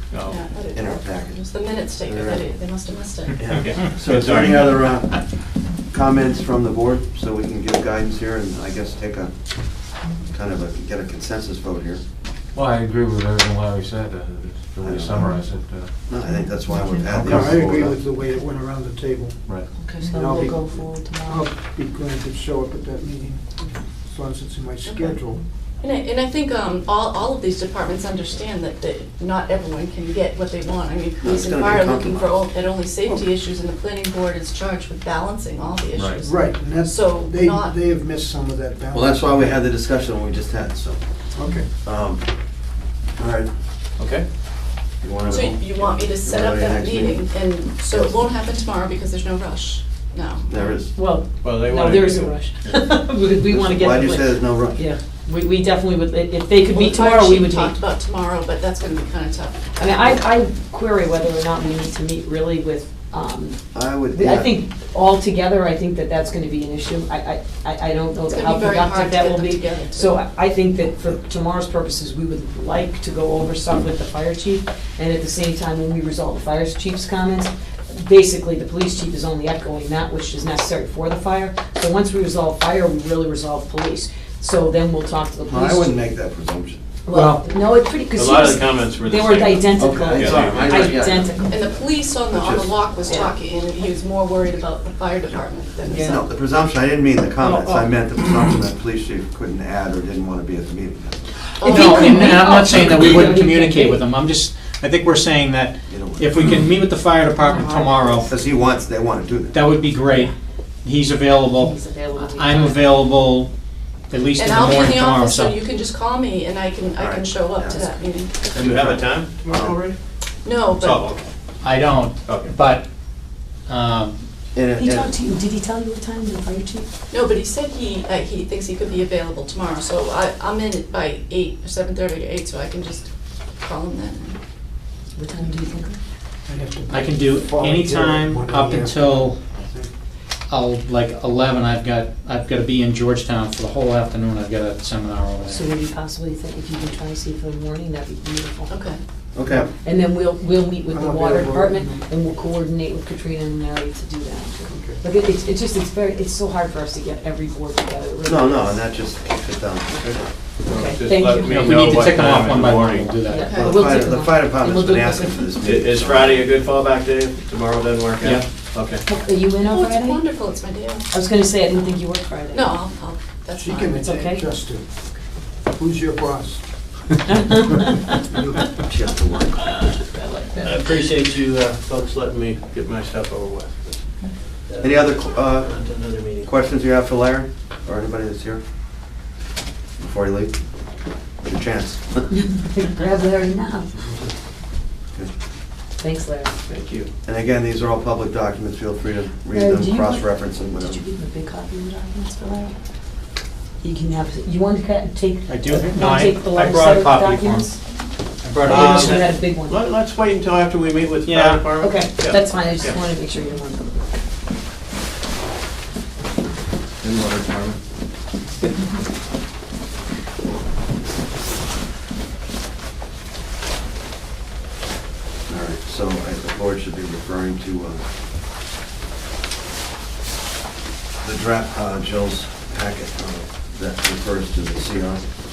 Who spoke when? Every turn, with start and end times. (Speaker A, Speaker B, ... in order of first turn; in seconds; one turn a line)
Speaker A: 0.1-0.4
Speaker B: 0.3-3.3
Speaker C: 0.7-2.5
Speaker C: 3.4-5.2
Speaker A: 3.4-4.9
Speaker C: 5.9-9.3
Speaker C: 10.2-12.0
Speaker D: 12.5-15.9
Speaker C: 14.8-15.2
Speaker C: 16.1-17.9
Speaker D: 17.1-17.9
Speaker E: 17.2-19.4
Speaker F: 19.8-21.5
Speaker E: 20.1-25.4
Speaker B: 24.8-25.2
Speaker B: 25.8-37.8
Speaker C: 31.2-32.4
Speaker E: 36.2-39.6
Speaker C: 38.9-41.0
Speaker E: 41.4-41.7
Speaker C: 41.8-42.2
Speaker C: 43.2-43.5
Speaker A: 44.0-44.2
Speaker C: 45.0-47.3
Speaker B: 45.3-50.8
Speaker C: 47.9-48.3
Speaker C: 50.5-51.0
Speaker F: 50.9-57.8
Speaker A: 51.4-52.8
Speaker C: 53.5-54.8
Speaker B: 56.7-59.7
Speaker F: 59.8-86.0
Speaker C: 63.7-64.6
Speaker B: 68.3-70.1
Speaker C: 85.5-86.8
Speaker F: 87.1-91.6
Speaker G: 87.1-87.4
Speaker A: 88.1-90.8
Speaker C: 89.8-91.5
Speaker B: 91.5-96.2
Speaker C: 92.3-92.9
Speaker F: 93.0-93.3
Speaker F: 95.8-96.2
Speaker C: 95.9-101.2
Speaker F: 97.4-97.9
Speaker B: 101.6-102.1
Speaker G: 101.6-108.3
Speaker F: 101.6-104.1
Speaker C: 105.9-106.4
Speaker B: 107.4-108.2
Speaker C: 108.3-109.6
Speaker G: 109.5-110.3
Speaker G: 110.8-113.5
Speaker F: 111.5-113.0
Speaker G: 114.1-115.6
Speaker B: 114.4-118.4
Speaker C: 117.0-117.9
Speaker C: 118.5-119.8
Speaker A: 118.5-120.0
Speaker B: 120.4-120.9
Speaker A: 120.8-121.2
Speaker G: 121.6-122.9
Speaker A: 122.2-122.5
Speaker G: 123.7-124.2
Speaker C: 124.5-125.2
Speaker F: 124.8-126.9
Speaker B: 127.1-133.0
Speaker B: 133.6-134.3
Speaker F: 135.2-136.0
Speaker E: 136.5-139.9
Speaker G: 136.9-139.4
Speaker G: 140.5-145.7
Speaker F: 145.4-148.8
Speaker B: 148.7-149.0
Speaker C: 149.3-149.7
Speaker F: 149.8-158.8
Speaker E: 150.9-152.1
Speaker E: 154.7-155.0
Speaker C: 158.2-160.2
Speaker A: 160.0-163.2
Speaker F: 160.7-161.7
Speaker G: 161.4-163.6
Speaker F: 163.3-165.6
Speaker C: 163.5-166.5
Speaker A: 165.6-169.1
Speaker F: 169.1-170.3
Speaker B: 169.6-171.1
Speaker F: 171.1-172.7
Speaker B: 172.5-174.1
Speaker E: 173.6-174.9
Speaker F: 174.0-174.4
Speaker E: 175.8-176.6
Speaker F: 177.3-178.2
Speaker E: 178.3-178.8
Speaker C: 178.8-179.6
Speaker F: 180.0-180.8
Speaker A: 180.6-184.0
Speaker A: 184.7-186.5
Speaker C: 184.8-185.7
Speaker C: 186.4-188.6
Speaker C: 190.0-190.6
Speaker C: 191.4-192.3
Speaker F: 192.3-193.9
Speaker F: 196.0-196.5
Speaker A: 196.7-197.1
Speaker C: 197.2-201.0
Speaker F: 199.5-202.8
Speaker F: 203.8-207.8
Speaker G: 205.5-207.7
Speaker G: 208.4-209.2
Speaker F: 208.6-209.8
Speaker A: 208.7-213.0
Speaker G: 211.2-211.7
Speaker F: 211.7-214.2
Speaker C: 217.0-217.8
Speaker C: 225.5-228.0
Speaker C: 231.2-235.3